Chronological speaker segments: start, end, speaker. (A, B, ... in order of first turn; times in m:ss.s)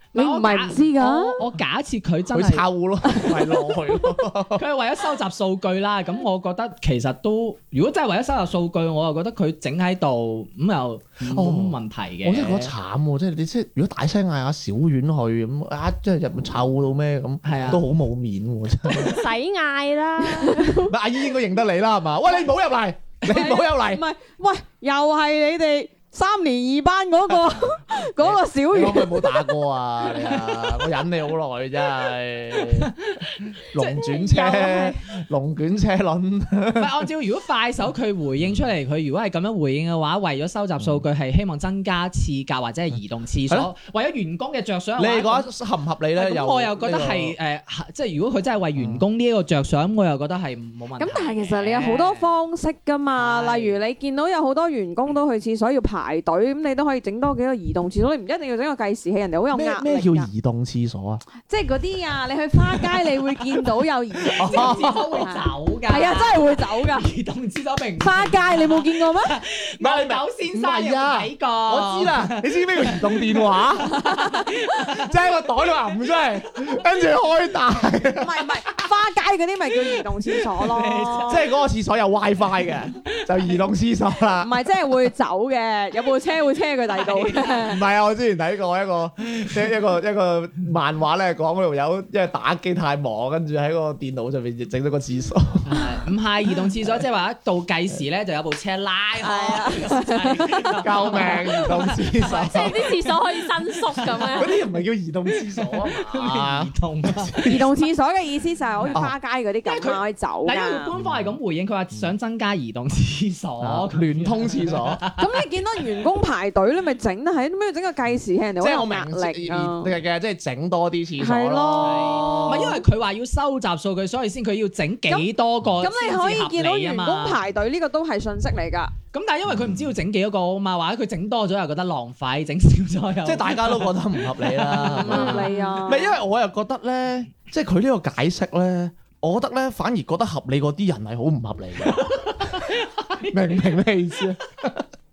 0:00.1-0:02.7 A
0:00.2-0:01.4 B
0:02.3-0:04.6 C
0:03.1-0:04.0 B
0:04.6-0:12.7 A
0:11.3-0:19.3 C
0:17.4-0:17.8 A
0:18.9-0:20.8 D
0:20.3-0:20.9 B
0:20.9-0:24.0 C
0:23.3-0:29.6 B
0:28.2-0:32.9 C
0:32.6-0:34.1 A
0:33.6-0:37.1 C
0:34.2-0:34.9 D
0:36.8-0:45.5 A
0:40.8-0:41.0 C
0:45.0-0:47.4 C
0:46.2-0:52.3 A
0:48.7-0:49.0 C
0:51.0-1:00.3 B
0:53.2-0:53.8 A
0:59.5-1:01.2 C
1:01.5-1:07.1 B
1:04.4-1:05.1 C
1:04.4-1:15.1 A
1:08.0-1:09.4 B
1:09.8-1:14.0 C
1:14.1-1:14.5 B
1:14.9-1:18.4 C
1:18.2-1:21.4 B
1:20.3-1:21.4 A
1:21.3-1:24.7 C
1:24.4-1:27.8 B
1:26.9-1:27.6 A
1:27.7-1:35.8 C
1:35.7-1:42.9 A
1:39.2-1:40.8 B
1:40.8-1:43.0 C
1:42.3-1:44.6 D
1:43.7-1:44.5 A
1:44.3-1:47.7 C
1:45.6-1:47.5 A
1:47.4-1:50.9 B
1:49.7-1:55.3 A
1:51.0-1:51.4 C
1:53.6-1:55.0 C
1:55.2-1:59.9 B
1:58.6-2:02.8 C
2:01.2-2:02.8 B
2:01.8-2:07.4 A
2:05.8-2:08.9 B
2:09.1-2:15.8 A
2:09.5-2:09.9 C
2:13.2-2:22.7 C
2:15.0-2:16.2 B
2:22.0-2:23.6 A
2:23.3-2:24.9 C